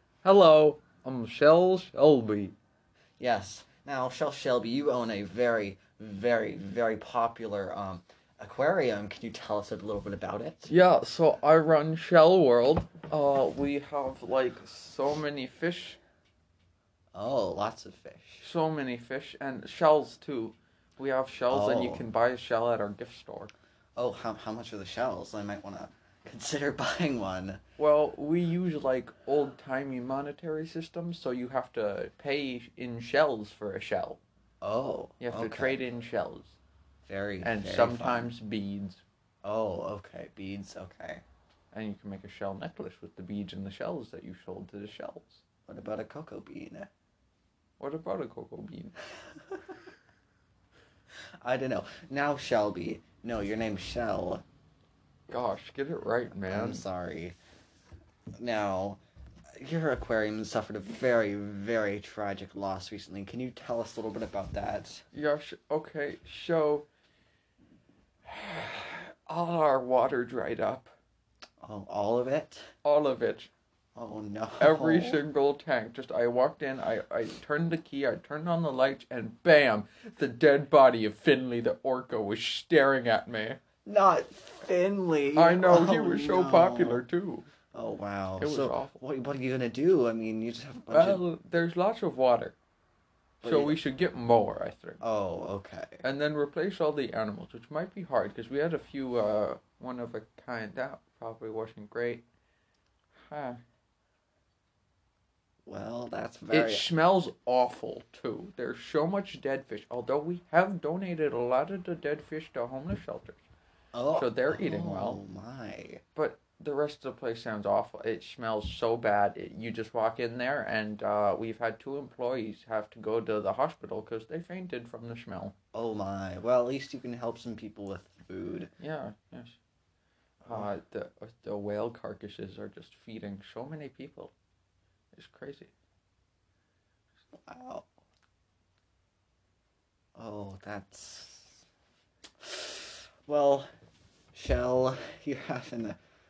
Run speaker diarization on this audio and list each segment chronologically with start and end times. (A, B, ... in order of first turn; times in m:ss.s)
0:00.2-0:02.6 A
0:03.2-0:10.7 B
0:10.7-0:16.0 A
0:17.1-0:18.5 B
0:18.4-0:23.5 A
0:21.5-0:22.0 B
0:24.0-0:27.6 B
0:27.8-0:34.2 A
0:34.6-0:35.8 B
0:35.2-0:36.5 A
0:37.1-0:38.3 B
0:37.4-0:39.0 A
0:39.4-0:41.2 B
0:41.7-0:45.4 A
0:45.7-0:46.9 B
0:47.8-0:48.9 A
0:51.4-0:54.4 B
0:55.3-0:56.8 A
0:56.5-0:57.4 B
0:58.4-0:59.0 B
0:59.6-1:05.0 B
1:05.1-1:06.9 A
1:08.2-1:10.9 A
1:11.6-1:12.6 B
1:12.8-1:13.5 A
1:14.0-1:15.2 B
1:14.6-1:23.6 A
1:23.9-1:27.0 B
1:25.4-1:27.5 A
1:27.7-1:31.2 B
1:28.4-1:29.0 A
1:30.9-1:32.6 A
1:33.4-1:33.8 B
1:33.4-1:35.0 A
1:35.0-1:36.0 B
1:36.0-1:42.2 A
1:43.3-1:43.6 A
1:45.7-1:46.9 B
1:46.5-1:53.4 A
1:53.9-1:56.0 B
1:54.1-1:55.2 A
1:56.2-2:05.6 A
2:05.7-2:08.7 B
2:08.8-2:09.6 A
2:10.4-2:10.7 B
2:10.5-2:14.3 A
2:15.1-2:15.7 A
2:17.3-2:17.9 B
2:20.2-2:21.6 B
2:22.4-2:23.7 B
2:24.3-2:26.0 B